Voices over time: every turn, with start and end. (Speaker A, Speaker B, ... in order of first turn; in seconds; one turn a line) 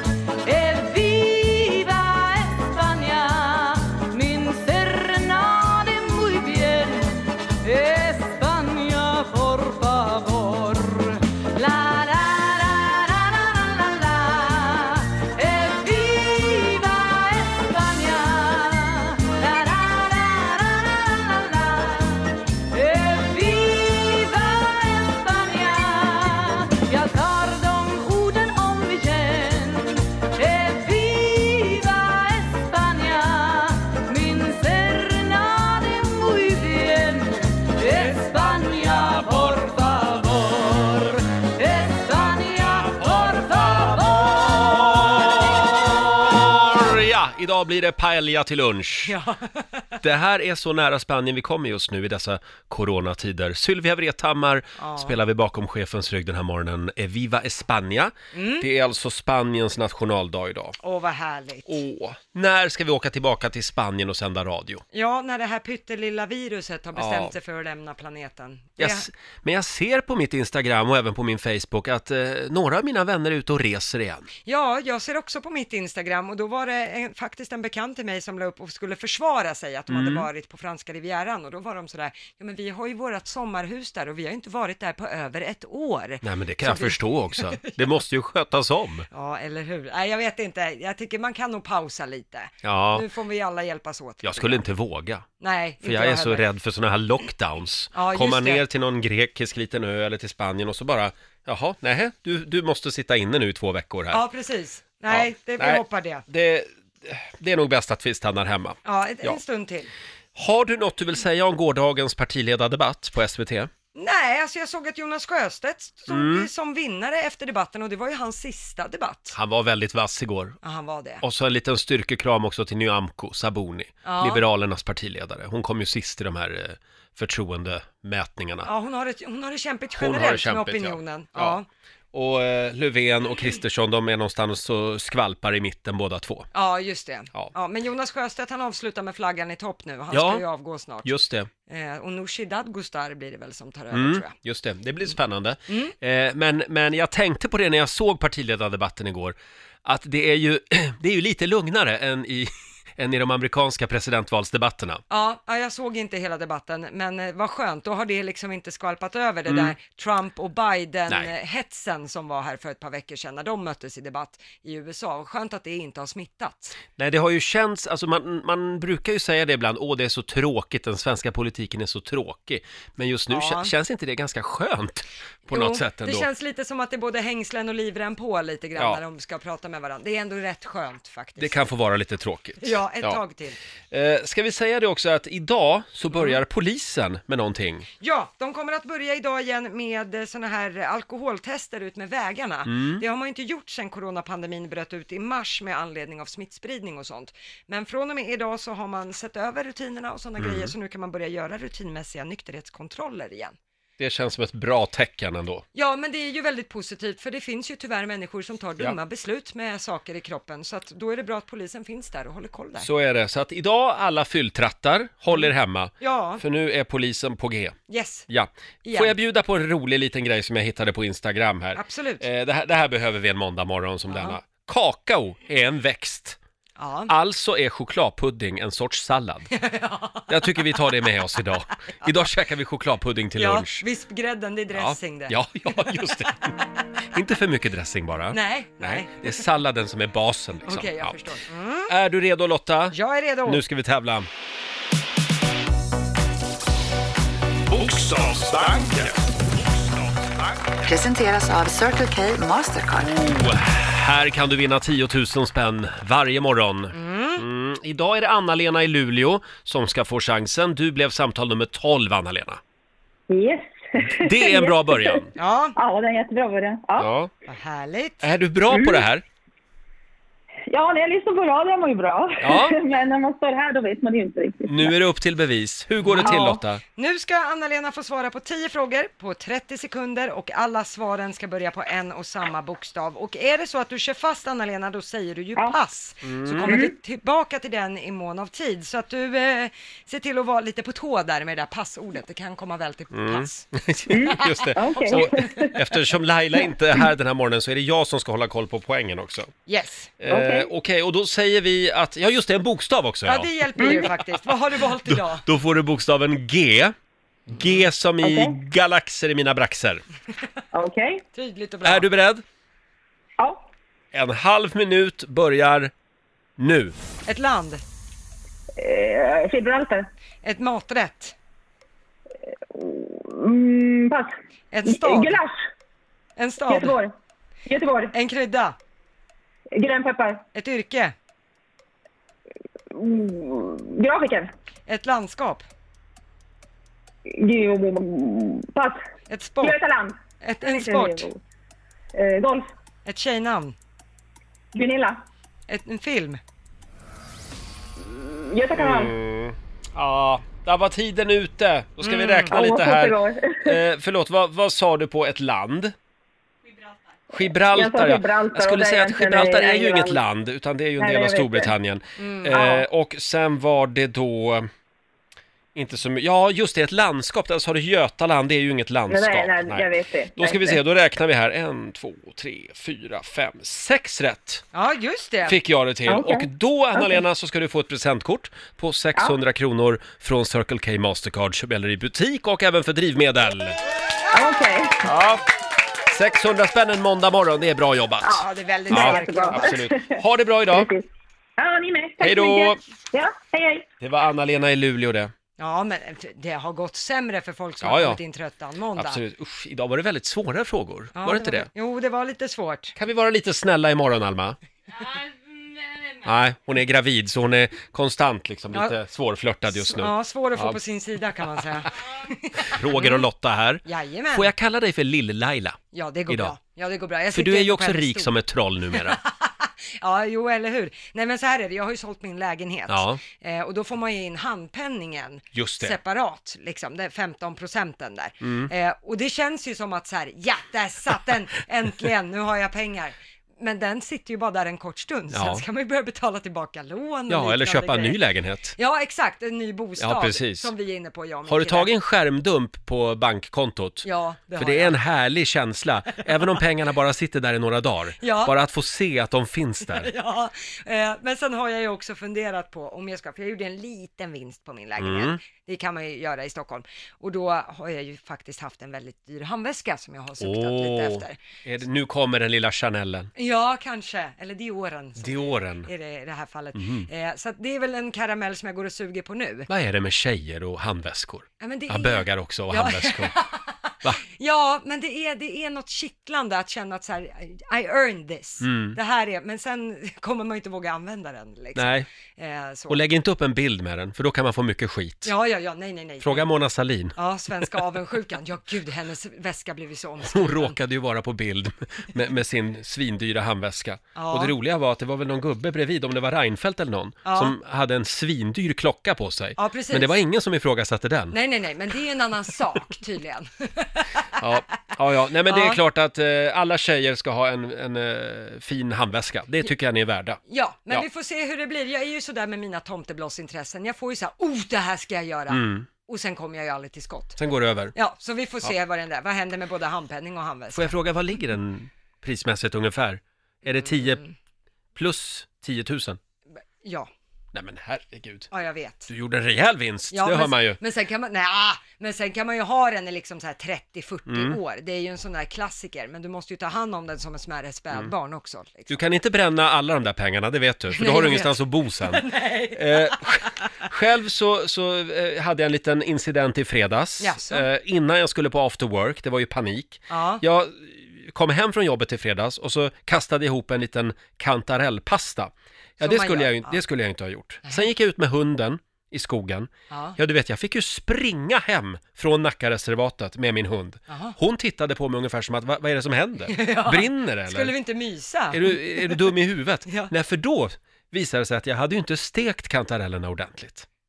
Speaker A: 0.4-44.8
Speaker B: 44.7-49.1
Speaker C: 49.0-49.9
Speaker B: 50.0-60.8
Speaker C: 54.8-55.2
Speaker C: 58.3-58.7
Speaker C: 60.8-61.8
Speaker B: 61.7-64.8
Speaker C: 64.9-69.1
Speaker B: 67.0-67.3
Speaker B: 68.8-74.3
Speaker C: 74.4-87.8
Speaker B: 79.9-80.3
Speaker B: 86.2-89.1
Speaker C: 89.1-94.6
Speaker B: 92.6-93.0
Speaker B: 94.2-95.2
Speaker C: 95.4-96.4
Speaker B: 95.8-104.2
Speaker C: 97.9-98.6
Speaker C: 104.1-106.2
Speaker B: 105.1-109.4
Speaker C: 108.8-109.9
Speaker B: 110.3-113.7
Speaker C: 113.9-119.4
Speaker B: 116.1-116.5
Speaker B: 119.3-120.6
Speaker C: 120.6-121.2
Speaker B: 121.2-128.7
Speaker C: 124.0-124.4
Speaker C: 128.6-131.7
Speaker B: 129.9-131.6
Speaker B: 132.1-136.5
Speaker C: 136.5-141.1
Speaker B: 140.1-140.4
Speaker B: 141.0-141.5
Speaker C: 141.7-144.3
Speaker B: 143.9-155.0
Speaker C: 145.7-145.9
Speaker C: 155.1-166.8
Speaker B: 159.4-159.8
Speaker B: 166.9-176.3
Speaker C: 173.3-173.7
Speaker C: 175.5-181.6
Speaker B: 181.4-183.2
Speaker C: 182.6-183.6
Speaker B: 183.9-187.9
Speaker C: 188.0-203.6
Speaker B: 192.7-193.0
Speaker B: 200.4-200.7
Speaker B: 204.0-205.6
Speaker C: 205.7-212.9
Speaker B: 212.8-217.8
Speaker C: 215.3-216.4
Speaker C: 217.9-218.3
Speaker B: 218.3-226.4
Speaker C: 218.8-219.2
Speaker C: 221.7-222.2
Speaker C: 224.1-224.4
Speaker C: 226.8-227.1
Speaker B: 227.1-229.5
Speaker C: 229.5-230.8
Speaker B: 230.3-233.8
Speaker C: 233.4-235.9
Speaker B: 234.7-236.6
Speaker B: 237.1-241.1
Speaker C: 238.3-239.4
Speaker C: 240.6-241.9
Speaker B: 241.9-244.3
Speaker C: 242.9-243.6
Speaker D: 247.7-250.5
Speaker E: 250.8-253.2
Speaker B: 253.0-262.6
Speaker C: 256.9-257.4
Speaker F: 263.3-265.2
Speaker B: 264.1-265.3
Speaker C: 265.4-265.7
Speaker F: 265.8-267.1
Speaker B: 267.0-267.3
Speaker C: 267.4-268.3
Speaker B: 268.2-269.2
Speaker F: 268.7-269.0
Speaker F: 270.7-274.9
Speaker B: 272.4-272.8
Speaker B: 274.6-276.8
Speaker C: 276.0-276.4
Speaker F: 276.2-276.6
Speaker C: 276.9-293.7
Speaker B: 286.2-286.8
Speaker B: 293.1-299.5
Speaker F: 294.1-295.7
Speaker C: 294.2-295.7
Speaker C: 299.7-300.1
Speaker B: 300.2-304.2
Speaker F: 300.3-300.7
Speaker C: 303.2-305.4
Speaker F: 303.8-304.1
Speaker B: 304.9-306.9
Speaker B: 307.5-310.0
Speaker C: 307.5-307.9
Speaker F: 308.2-308.5
Speaker F: 310.7-311.2
Speaker C: 311.3-312.1
Speaker B: 311.8-312.4
Speaker B: 314.1-315.9
Speaker B: 316.6-316.9
Speaker C: 317.2-317.8
Speaker F: 318.8-320.1
Speaker C: 320.4-321.3
Speaker F: 322.7-324.3
Speaker C: 324.7-325.4
Speaker F: 324.9-325.6
Speaker C: 326.4-327.0
Speaker F: 326.7-327.1
Speaker F: 327.6-328.1
Speaker C: 328.1-328.8
Speaker F: 329.8-330.4
Speaker C: 330.5-331.1
Speaker F: 332.9-334.5
Speaker C: 334.9-335.6
Speaker F: 337.3-339.0
Speaker C: 339.3-339.8
Speaker F: 339.6-341.4
Speaker C: 340.4-341.3
Speaker F: 342.1-342.7
Speaker C: 343.0-343.7
Speaker F: 344.7-345.2
Speaker C: 345.7-346.4
Speaker F: 348.0-349.1
Speaker B: 348.7-355.9
Speaker C: 352.0-352.5
Speaker F: 352.5-353.8
Speaker B: 357.3-364.7
Speaker F: 357.3-360.2
Speaker F: 361.0-361.7
Speaker C: 362.2-362.8
Speaker F: 362.5-362.8
Speaker B: 365.7-374.6
Speaker F: 369.1-370.8
Speaker C: 374.7-375.6
Speaker B: 375.4-383.8
Speaker F: 376.1-377.2
Speaker F: 384.3-385.1
Speaker B: 385.0-385.4
Speaker B: 386.1-390.9
Speaker F: 388.2-391.0
Speaker C: 388.4-389.7
Speaker F: 391.6-393.9
Speaker B: 392.2-392.8
Speaker B: 394.0-395.3
Speaker C: 395.6-399.2
Speaker B: 397.8-398.2
Speaker B: 398.9-401.7
Speaker C: 401.1-402.9
Speaker B: 402.9-404.6
Speaker B: 406.2-410.8
Speaker C: 408.7-409.0
Speaker C: 409.7-413.2
Speaker B: 412.6-416.6
Speaker C: 413.9-414.5
Speaker C: 415.9-418.3
Speaker B: 417.3-419.2
Speaker C: 419.0-438.2
Speaker B: 422.9-423.2
Speaker B: 425.5-426.0
Speaker B: 428.4-428.7
Speaker B: 435.3-435.6
Speaker B: 437.3-438.8
Speaker C: 438.8-441.9
Speaker B: 440.0-440.7
Speaker B: 441.5-450.1
Speaker C: 444.0-444.9
Speaker C: 448.2-448.5
Speaker C: 449.9-461.4
Speaker B: 455.0-455.4
Speaker B: 460.4-463.3
Speaker C: 463.4-469.7
Speaker B: 465.2-465.9
Speaker B: 466.7-467.1
Speaker B: 469.7-473.3
Speaker C: 471.6-483.0
Speaker B: 478.6-479.0
Speaker B: 481.8-482.1
Speaker B: 482.9-485.3
Speaker C: 485.2-486.5
Speaker B: 486.2-487.1
Speaker C: 487.1-490.8
Speaker B: 490.2-501.3
Speaker C: 494.1-494.5
Speaker C: 497.2-497.5
Speaker C: 499.6-500.2
Speaker C: 501.3-504.4
Speaker B: 504.4-510.4
Speaker C: 505.5-505.8
Speaker C: 510.4-517.4
Speaker B: 515.5-515.9
Speaker B: 517.4-517.9
Speaker C: 517.9-521.0
Speaker B: 520.7-524.2
Speaker C: 523.6-524.3
Speaker B: 524.9-526.2
Speaker C: 526.8-527.1
Speaker B: 527.5-528.5
Speaker C: 528.5-529.1
Speaker B: 529.1-530.8
Speaker C: 530.1-539.0
Speaker B: 534.3-534.6
Speaker B: 538.9-567.7
Speaker C: 540.9-543.6
Speaker C: 547.2-547.7
Speaker C: 550.1-550.4
Speaker C: 556.0-556.8
Speaker C: 559.9-560.2
Speaker C: 564.1-564.4
Speaker C: 566.5-569.3
Speaker B: 568.5-573.9
Speaker C: 569.9-570.1